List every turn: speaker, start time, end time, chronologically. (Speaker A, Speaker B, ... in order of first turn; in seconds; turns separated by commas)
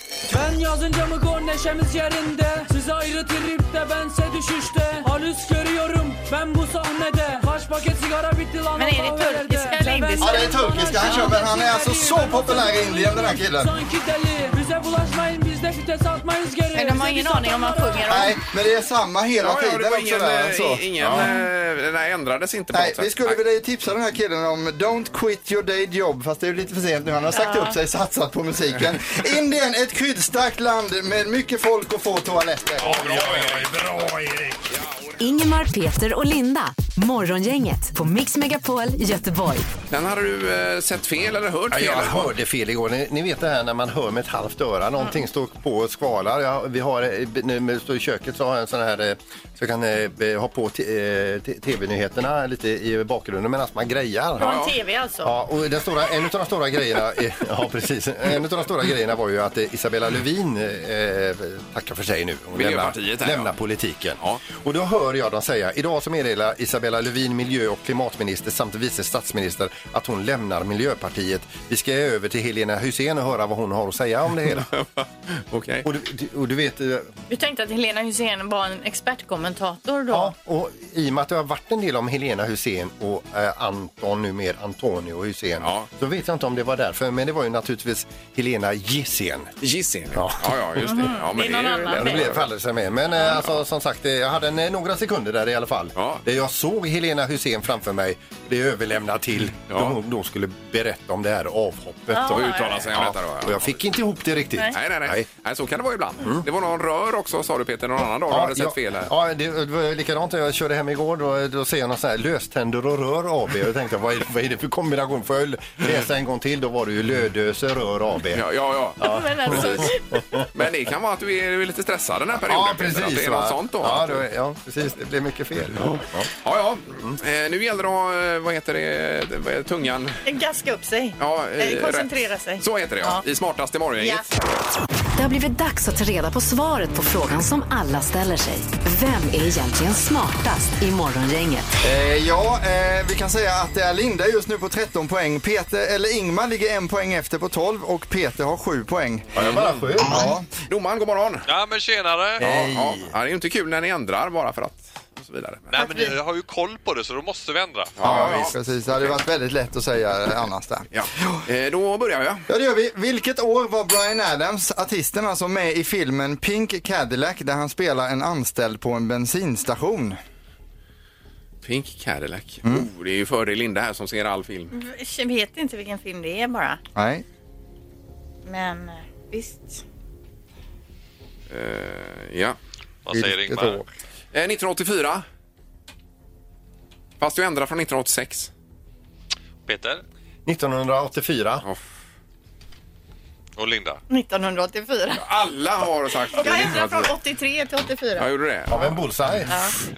Speaker A: 0.3-18.2, Speaker B: 8.7-11.4, Speaker C: 10.2-13.7, Speaker B: 16.7-18.4, Speaker C: 18.1-21.3, Speaker D: 19.4-23.4, Speaker C: 22.7-33.0, Speaker B: 27.3-27.8, Speaker D: 32.8-33.9, Speaker E: 32.8-34.6, Speaker D: 34.7-35.2, Speaker F: 35.2-39.7, Speaker D: 39.9-42.3, Speaker E: 41.7-54.5, Speaker B: 54.4-55.3, Speaker D: 54.4-54.7, Speaker E: 55.2-74.7, Speaker D: 62.5-63.5, Speaker D: 74.6-75.8, Speaker E: 75.8-77.1, Speaker B: 77.3-80.3, Speaker E: 80.1-89.5, Speaker D: 85.6-85.9, Speaker D: 89.6-92.5, Speaker E: 90.1-91.1, Speaker B: 90.8-92.4, Speaker E: 91.9-105.3, Speaker D: 96.0-96.2, Speaker D: 99.7-100.0, Speaker B: 102.1-102.9, Speaker D: 102.3-103.8, Speaker D: 104.7-109.1, Speaker E: 108.3-118.4, Speaker D: 118.3-119.9, Speaker E: 119.0-120.4, Speaker B: 119.0-120.0, Speaker D: 120.5-124.2, Speaker E: 122.4-126.3, Speaker D: 125.8-130.2, Speaker B: 130.2-133.2, Speaker D: 131.2-134.3, Speaker B: 134.0-134.3, Speaker F: 135.2-141.7, Speaker C: 141.8-149.3, Speaker E: 149.3-150.2, Speaker D: 149.3-150.1, Speaker C: 150.1-150.5, Speaker D: 150.7-151.4, Speaker G: 151.4-152.4, Speaker D: 152.4-155.7, Speaker E: 152.4-152.9, Speaker G: 155.7-158.1, Speaker D: 158.0-159.1, Speaker C: 158.0-161.4, Speaker D: 160.9-162.5, Speaker C: 162.5-170.2, Speaker D: 171.6-174.7, Speaker B: 174.7-176.8, Speaker C: 176.9-177.2, Speaker B: 178.4-179.8, Speaker D: 181.5-182.6, Speaker G: 183.0-183.8, Speaker E: 183.1-183.8, Speaker C: 183.2-183.7, Speaker D: 184.3-185.2, Speaker D: 187.2-188.5, Speaker G: 189.7-190.0, Speaker E: 190.4-191.6, Speaker G: 193.6-194.0, Speaker B: 194.1-195.2, Speaker D: 195.1-197.1, Speaker B: 196.3-198.3, Speaker D: 198.2-199.0, Speaker E: 198.7-199.5, Speaker B: 199.5-199.7